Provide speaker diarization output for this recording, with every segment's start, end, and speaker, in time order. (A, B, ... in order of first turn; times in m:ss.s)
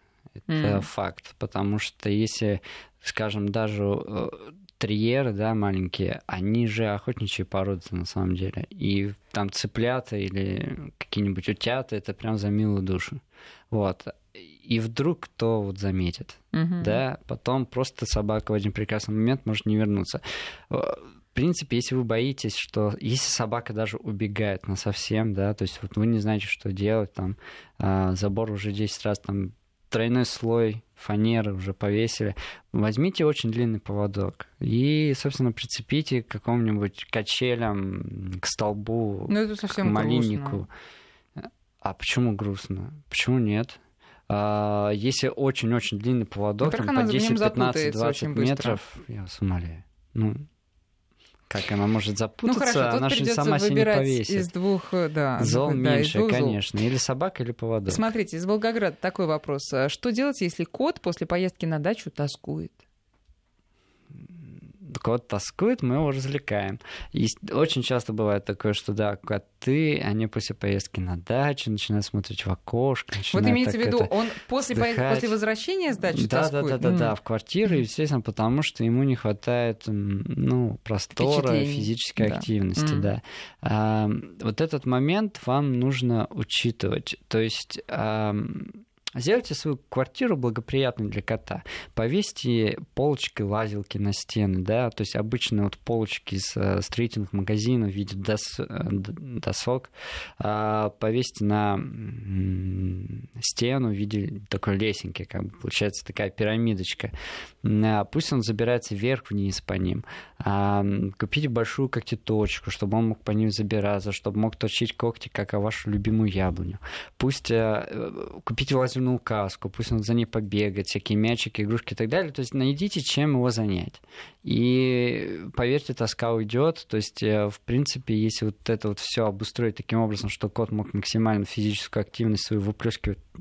0:00.5-0:00.9 A
0:00.5-0:40.7 B
0:16.5-0:17.0 A
0:39.3-0:40.6 A
0:41.4-0:50.5 B
0:46.6-0:48.8 A
0:51.5-0:54.5 B
0:52.4-0:56.6 A
0:55.4-0:58.1 B
0:57.9-1:02.8 A
1:04.2-1:14.1 B
1:13.3-1:17.1 A
1:14.6-1:15.4 B
1:16.1-2:13.2 B
1:21.2-1:23.1 A